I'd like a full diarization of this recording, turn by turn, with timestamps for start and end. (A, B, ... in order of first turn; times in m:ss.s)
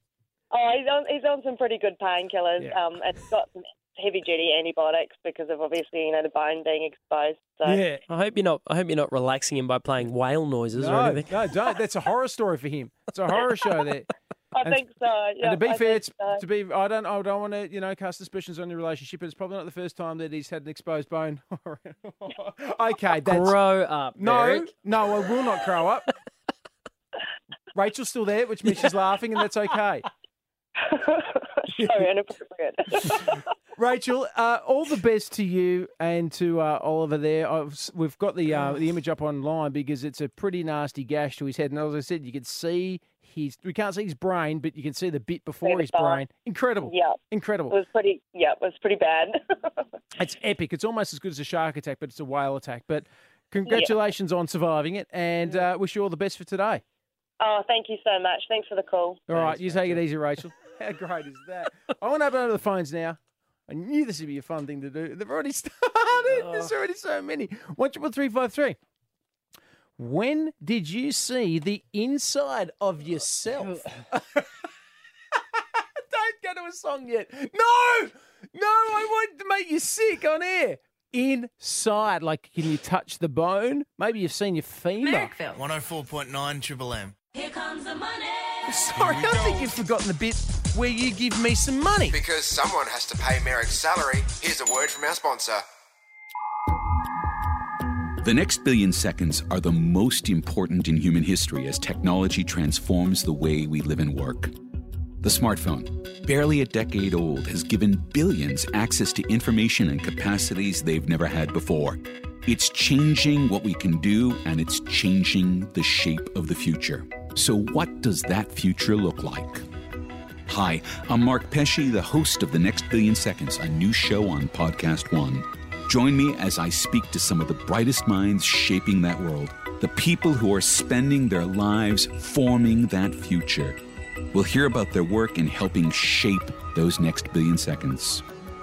0:00.5-0:07.8 A
0:07.6-0:08.0 B
0:08.1-0:11.4 C
0:10.8-0:14.1 B
0:14.5-0:16.4 A
0:15.4-0:23.6 B
0:23.2-0:24.7 C
0:24.2-0:26.1 B
0:27.8-0:30.1 B
0:30.8-0:33.4 A
0:31.7-0:32.1 B
0:33.8-0:47.8 B
0:45.6-0:46.2 A
0:46.8-0:47.2 A
0:47.7-0:49.4 A
0:50.2-0:56.8 B
0:53.7-0:54.0 A
0:57.4-0:59.3 A
0:59.3-1:08.8 B
0:59.4-0:59.8 C
1:06.2-1:06.7 C
1:10.0-1:14.5 B
1:13.6-1:14.0 C
1:15.5-1:25.3 B
1:25.5-1:27.2 D
1:28.7-1:32.2 B
1:29.0-1:29.7 D
1:32.1-1:35.6 E
1:38.2-1:44.5 F
1:45.2-1:59.6 F
2:00.5-2:13.8 F
2:14.3-2:18.2 F